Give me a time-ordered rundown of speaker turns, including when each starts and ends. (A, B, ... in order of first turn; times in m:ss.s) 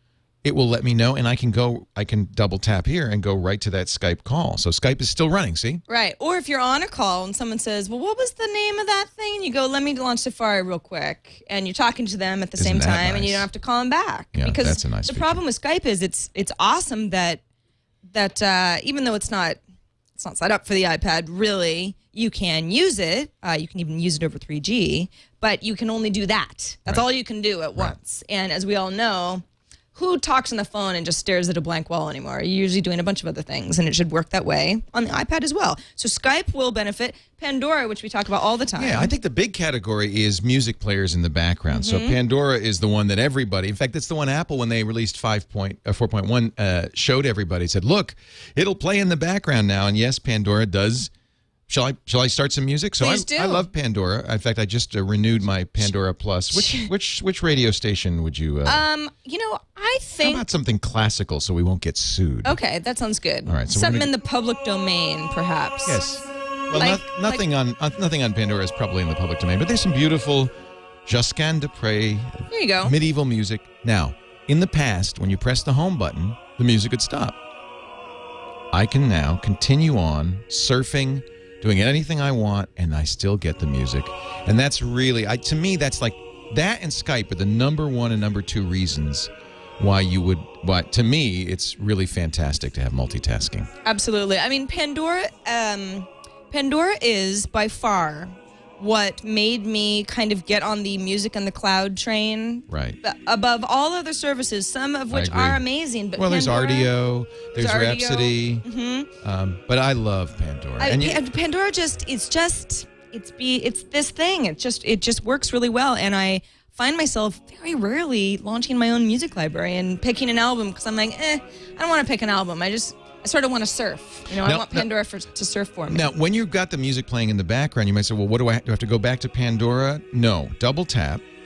0:00.4-0:05.8 A
0:05.9-0:17.4 B
0:12.6-0:13.5 A
0:14.3-0:15.4 A
0:18.1-0:19.6 B
0:20.2-0:29.4 B
0:30.0-0:39.1 B
0:38.8-0:51.1 A
0:41.7-0:42.2 B
0:51.7-0:58.8 A
0:53.0-0:53.7 B
0:56.5-0:56.9 B
0:58.7-1:00.5 B
1:00.2-1:02.6 A
1:02.4-1:06.1 B
1:03.5-1:04.1 A
1:05.8-1:10.5 A
1:06.7-1:07.4 B
1:11.1-1:17.4 A
1:12.5-1:13.0 B
1:18.7-1:33.7 A
1:33.8-1:46.9 B
1:42.7-1:43.0 A
1:45.1-1:45.6 A
1:46.2-1:48.6 A
1:47.6-1:49.1 B
1:49.2-1:51.2 A
1:50.8-2:06.1 B
2:04.3-2:04.9 A
2:05.9-2:11.2 A